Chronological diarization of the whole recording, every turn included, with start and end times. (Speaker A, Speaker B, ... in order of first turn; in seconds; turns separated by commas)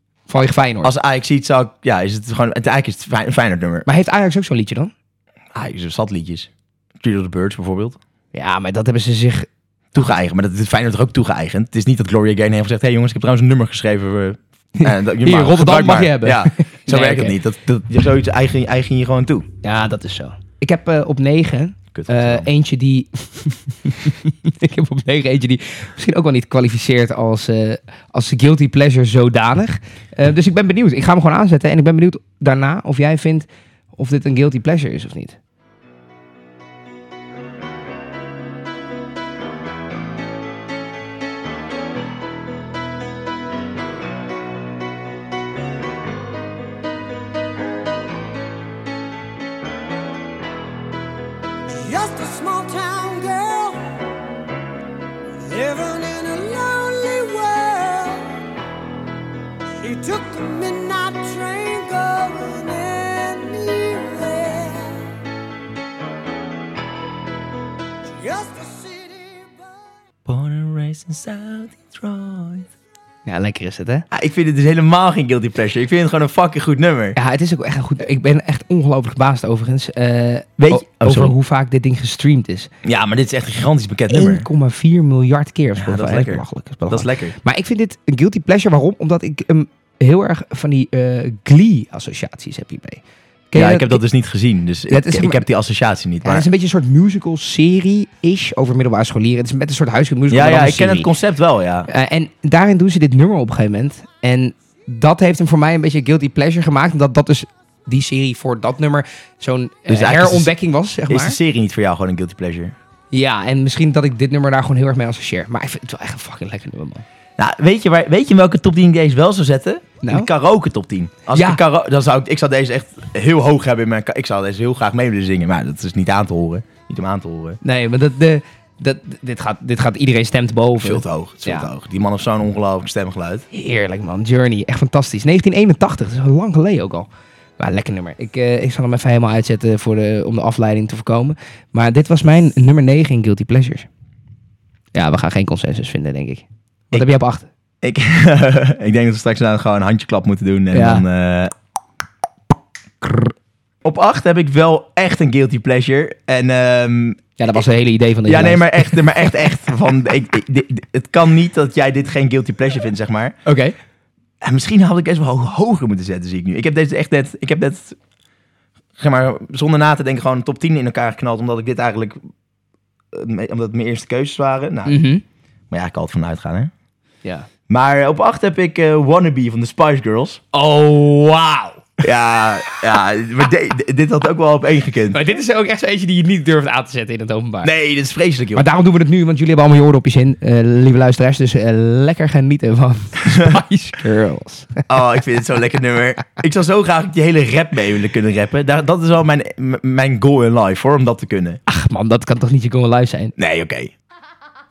Speaker A: 0.3-0.9, Speaker B: 0.8-3.9, Speaker A: 3.9-4.9, Speaker B: 5.5-6.5, Speaker B: 7.0-8.0, Speaker A: 8.3-9.5, Speaker B: 9.9-19.5, Speaker A: 14.8-17.4, Speaker A: 19.6-35.4, Speaker B: 21.9-22.5, Speaker C: 51.7-53.8, Speaker C: 55.4-58.3, Speaker C: 59.8-65.1, Speaker C: 68.2-69.8, Speaker B: 70.2-72.7, Speaker A: 73.2-74.0, Speaker B: 74.1-77.2, Speaker A: 77.2-82.7, Speaker B: 80.6-81.3, Speaker B: 82.8-84.5, Speaker A: 84.1-93.0, Speaker B: 85.8-87.3, Speaker A: 93.5-94.0, Speaker B: 93.5-96.5, Speaker A: 94.9-95.4, Speaker A: 96.2-101.1, Speaker B: 100.3-101.9, Speaker A: 101.9-111.4, Speaker B: 109.9-110.5, Speaker B: 111.1-112.7, Speaker A: 113.1-117.0, Speaker B: 117.4-127.6, Speaker A: 120.0-120.3, Speaker A: 121.3-121.6, Speaker A: 127.6-131.7, Speaker B: 130.8-133.4, Speaker A: 133.5-137.1, Speaker A: 137.6-143.9, Speaker A: 144.9-147.5, Speaker B: 147.8-151.5, Speaker A: 150.7-151.0, Speaker A: 153.0-153.3, Speaker B: 153.8-157.2, Speaker A: 157.4-159.0, Speaker B: 158.2-163.3, Speaker A: 163.4-163.7, Speaker B: 164.4-168.0, Speaker B: 169.0-172.2, Speaker B: 173.1-175.0, Speaker A: 174.8-175.2, Speaker B: 175.7-176.7, Speaker B: 177.7-180.4, Speaker A: 180.5-181.8, Speaker B: 182.0-185.2, Speaker A: 185.1-187.7, Speaker B: 187.6-188.7, Speaker A: 188.5-194.8, Speaker B: 193.2-193.6, Speaker B: 194.9-201.6, Speaker A: 201.7-203.3, Speaker B: 203.4-203.9